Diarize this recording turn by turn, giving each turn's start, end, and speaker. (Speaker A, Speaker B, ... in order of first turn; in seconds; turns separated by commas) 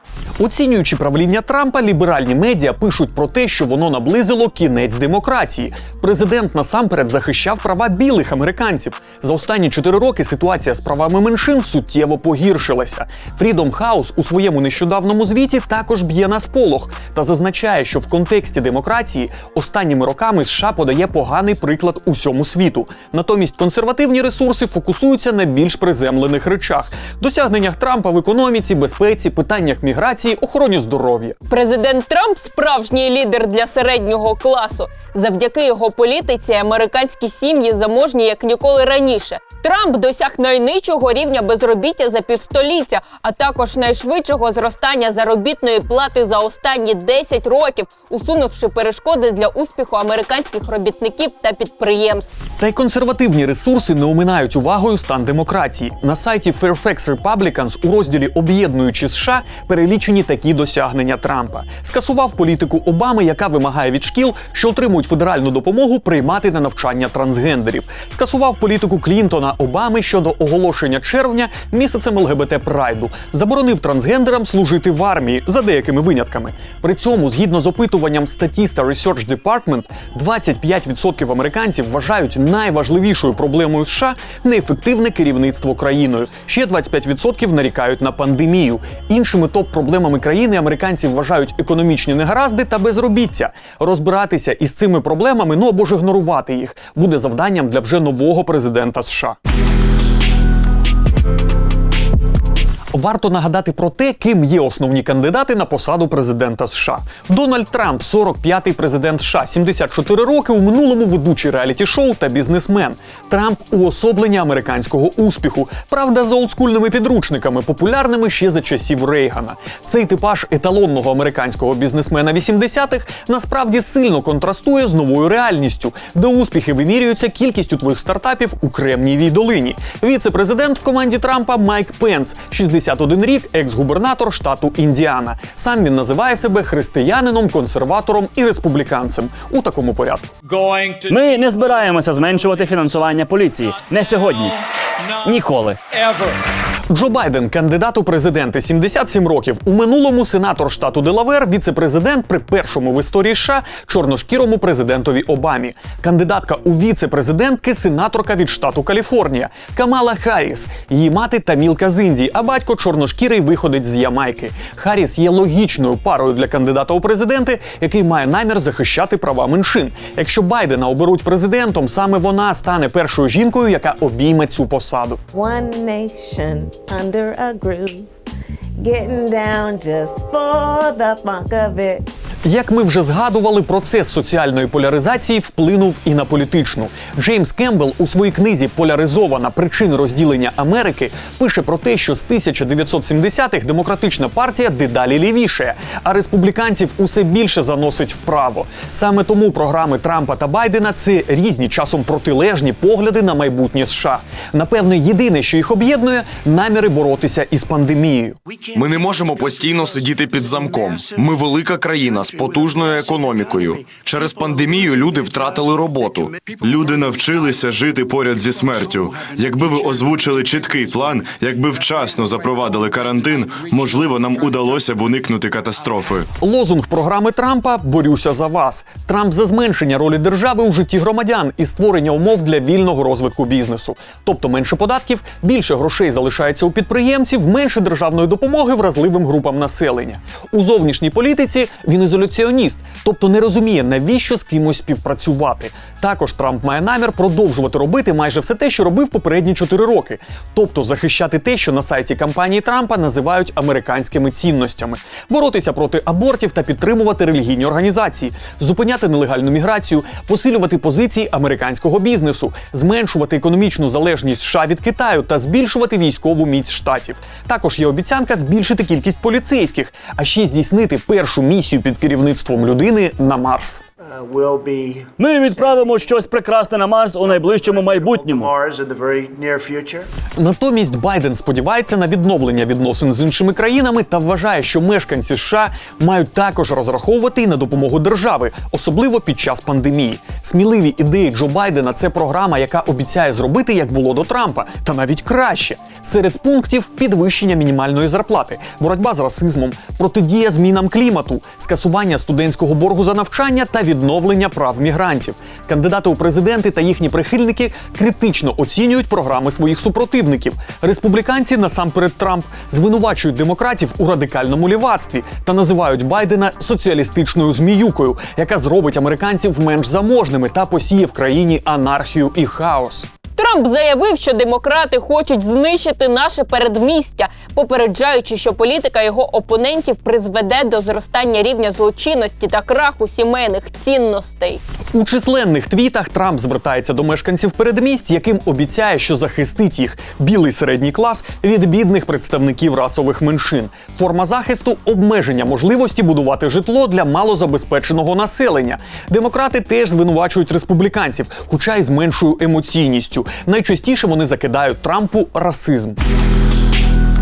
Speaker A: 0.4-31.4, Speaker B: 31.5-52.3, Speaker A: 52.6-99.4, Speaker A: 102.9-140.3, Speaker C: 141.1-144.6, Speaker C: 145.2-146.0, Speaker A: 146.9-175.2, Speaker D: 175.3-178.1, Speaker D: 178.8-182.1, Speaker A: 182.4-208.4, Speaker E: 208.7-216.6, Speaker F: 209.4-211.3, Speaker F: 212.3-217.7, Speaker G: 216.6-226.3, Speaker F: 218.4-221.1, Speaker F: 221.8-223.3, Speaker A: 226.4-273.8, Speaker F: 274.1-275.1, Speaker C: 275.2-278.5, Speaker F: 277.6-280.1, Speaker A: 280.4-323.1, Speaker B: 323.4-334.6, Speaker A: 334.9-356.0